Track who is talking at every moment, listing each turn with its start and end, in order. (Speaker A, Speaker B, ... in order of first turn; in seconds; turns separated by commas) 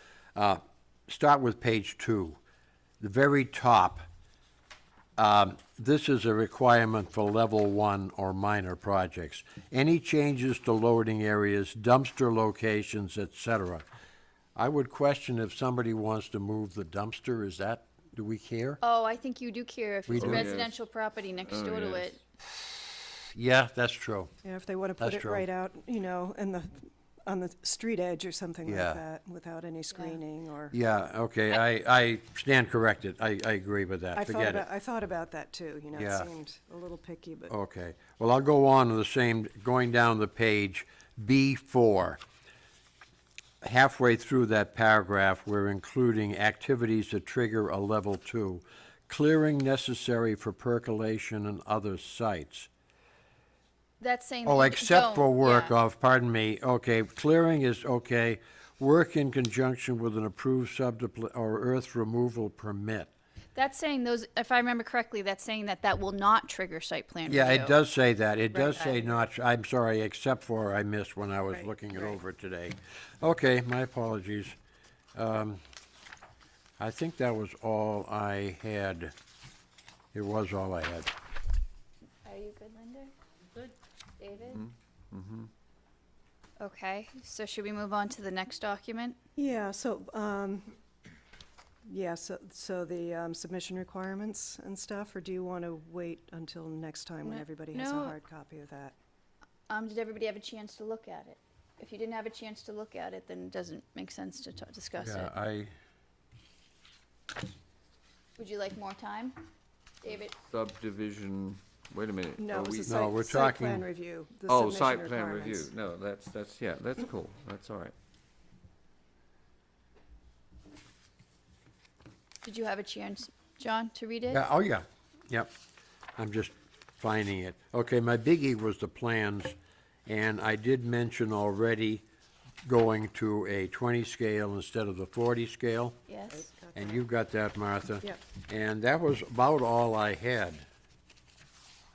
Speaker A: 0.3-2.4, Speaker A: 3.0-4.0, Speaker A: 5.2-13.9, Speaker A: 14.6-18.8, Speaker B: 18.8-22.2, Speaker A: 20.1-20.5, Speaker C: 20.2-20.7, Speaker C: 21.4-22.2, Speaker A: 23.3-24.3, Speaker D: 24.4-30.8, Speaker A: 25.0-25.4, Speaker A: 28.7-29.0, Speaker A: 30.7-34.6, Speaker D: 34.1-37.5, Speaker A: 35.9-36.3, Speaker A: 37.5-42.2, Speaker A: 43.6-52.7, Speaker B: 54.0-55.8, Speaker A: 54.5-63.1, Speaker B: 63.5-67.8, Speaker A: 67.3-74.6, Speaker B: 68.5-69.1, Speaker D: 71.5-72.2, Speaker A: 75.2-75.6, Speaker A: 76.8-79.1, Speaker A: 80.1-81.1, Speaker B: 82.2-83.1, Speaker B: 84.2-84.6, Speaker C: 84.5-85.5, Speaker B: 86.6-89.2, Speaker D: 89.4-90.8, Speaker D: 91.8-99.0, Speaker B: 97.2-98.2, Speaker B: 99.7-105.3, Speaker A: 105.0-105.7, Speaker B: 108.4-109.5, Speaker B: 110.0-110.3, Speaker C: 110.4-113.1, Speaker D: 112.4-115.7, Speaker A: 112.9-113.9, Speaker C: 114.5-118.0, Speaker B: 122.4-124.4, Speaker A: 124.3-125.5, Speaker A: 126.2-132.1, Speaker A: 132.7-136.0, Speaker B: 136.1-136.5, Speaker D: 136.3-137.0, Speaker A: 136.8-140.7